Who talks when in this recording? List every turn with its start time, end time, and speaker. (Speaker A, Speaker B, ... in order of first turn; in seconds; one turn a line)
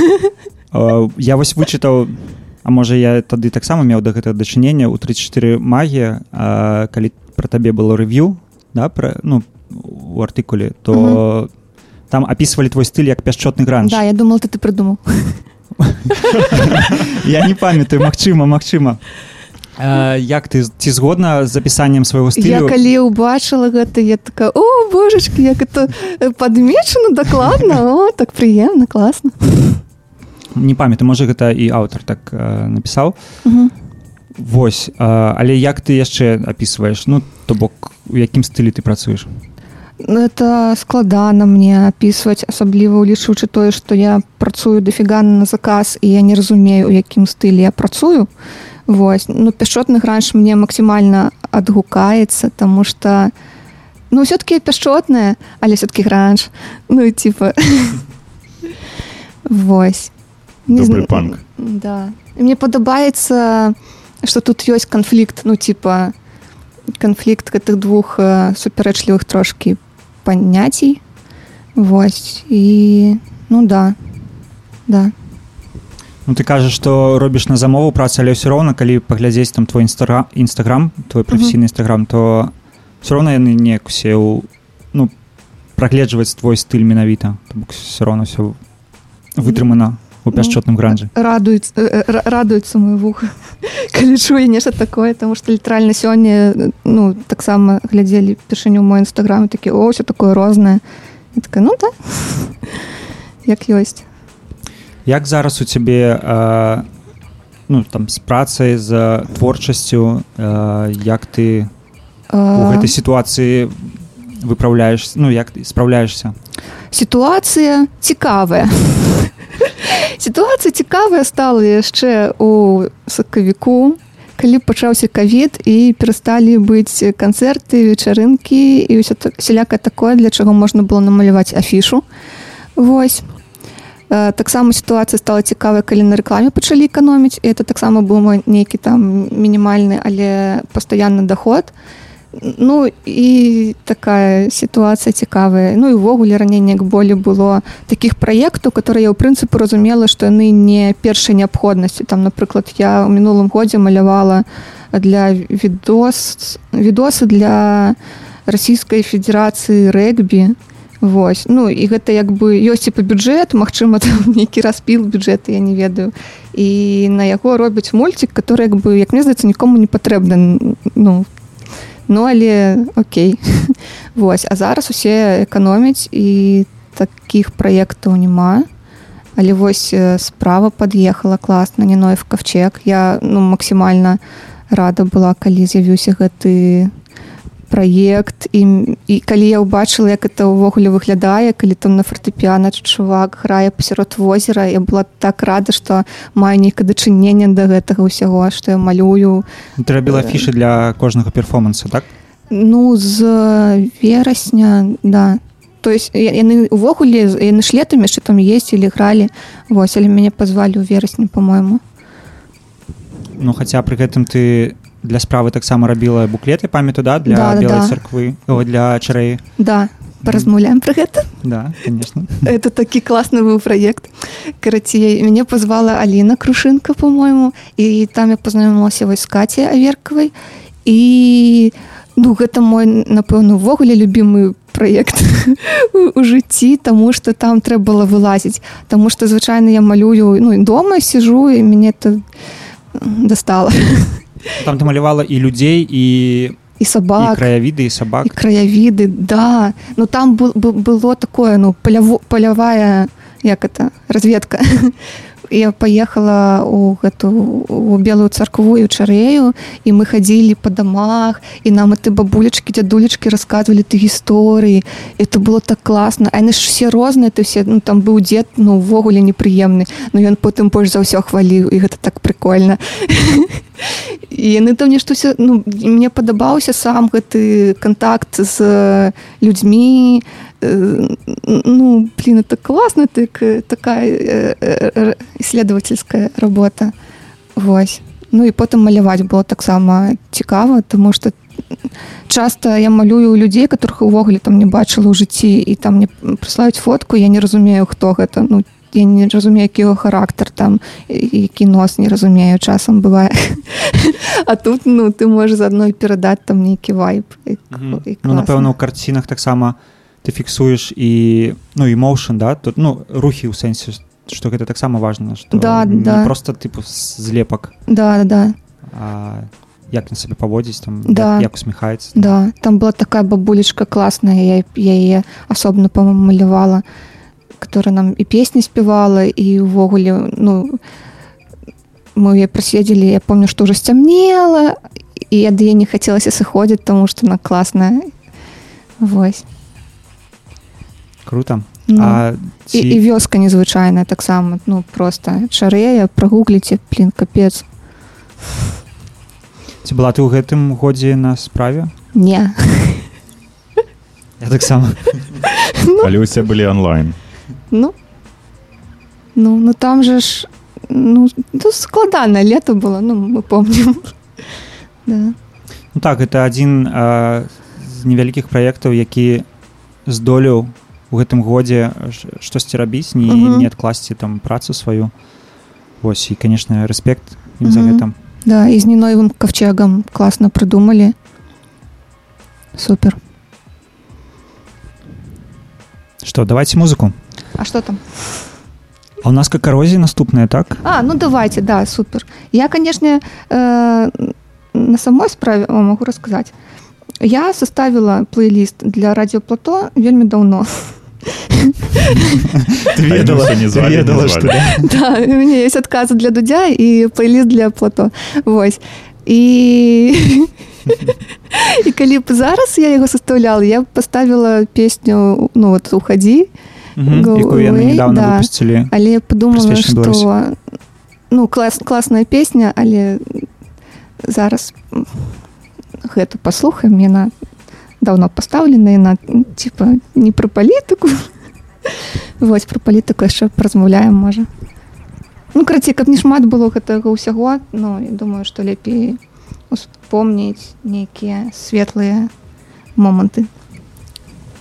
Speaker A: 0.7-11.5
Speaker B: 10.9-11.2
Speaker A: 12.1-14.0
Speaker B: 13.8-15.4
Speaker A: 15.8-19.0
Speaker A: 19.8-22.8
Speaker B: 22.4-29.8
Speaker A: 30.5-33.1
Speaker B: 33.5-33.7
Speaker A: 34.4-39.4
Speaker B: 40.0-48.3
Speaker B: 48.9-53.3
Speaker B: 54.1-58.0
Speaker B: 59.5-60.1
Speaker B: 60.7-66.1
Speaker C: 60.7-61.4
Speaker B: 67.0-71.0
Speaker B: 71.8-74.0
Speaker B: 74.9-75.1
Speaker A: 76.2-85.1
Speaker A: 85.8-88.6
Speaker A: 89.3-91.1
Speaker B: 89.4-89.7
Speaker B: 90.3-100.8
Speaker B: 101.3-102.7
Speaker B: 103.5-104.0
Speaker A: 105.1-106.9
Speaker A: 107.7-111.7
Speaker B: 112.3-112.9
Speaker A: 112.5-116.3
Speaker B: 116.9-132.0
Speaker B: 132.8-133.2
Speaker B: 134.1-141.7
Speaker B: 142.3-171.3
Speaker B: 172.1-178.7
Speaker B: 179.4-184.2
Speaker B: 184.7-186.9
Speaker B: 187.7-199.4
Speaker A: 199.8-202.1
Speaker B: 200.1-200.4
Speaker B: 202.5-211.8
Speaker A: 213.4-219.4
Speaker B: 217.2-218.0
Speaker B: 219.6-221.3
Speaker A: 220.2-220.5
Speaker A: 221.4-222.5
Speaker B: 222.4-230.3
Speaker B: 230.8-242.2
Speaker B: 242.9-244.2
Speaker A: 244.6-246.6
Speaker B: 246.8-247.5
Speaker A: 247.2-248.4
Speaker B: 248.2-255.0
Speaker B: 255.5-286.9
Speaker B: 287.6-291.4
Speaker B: 292.3-308.7
Speaker A: 307.7-317.7
Speaker B: 315.5-316.3
Speaker B: 317.9-318.6
Speaker A: 318.9-322.4
Speaker B: 321.1-321.5
Speaker B: 322.1-326.8
Speaker B: 327.6-330.8
Speaker B: 332.2-334.8
Speaker B: 335.3-338.1
Speaker B: 339.0-339.4
Speaker A: 341.3-343.0
Speaker B: 341.9-347.6
Speaker A: 349.8-351.9
Speaker B: 352.1-353.1
Speaker A: 354.4-355.4
Speaker B: 355.7-356.1
Speaker C: 356.0-357.2
Speaker B: 359.4-364.1
Speaker B: 365.1-365.4
Speaker A: 365.9-369.5
Speaker A: 370.1-375.1
Speaker B: 373.3-373.7
Speaker A: 376.0-378.1
Speaker B: 377.6-381.1
Speaker B: 382.8-383.2
Speaker A: 386.2-387.2
Speaker B: 387.6-388.0
Speaker A: 389.2-390.8
Speaker B: 390.8-396.5
Speaker B: 397.2-402.4
Speaker A: 402.6-404.9
Speaker C: 403.0-404.6
Speaker B: 404.8-410.5
Speaker B: 411.0-416.5
Speaker A: 417.0-418.9
Speaker B: 417.1-420.6
Speaker A: 419.5-420.3
Speaker B: 421.3-423.5
Speaker B: 424.2-425.2
Speaker B: 426.0-427.3
Speaker B: 428.0-431.3
Speaker B: 431.9-434.5
Speaker B: 435.6-439.2
Speaker B: 439.7-442.3
Speaker B: 443.0-443.5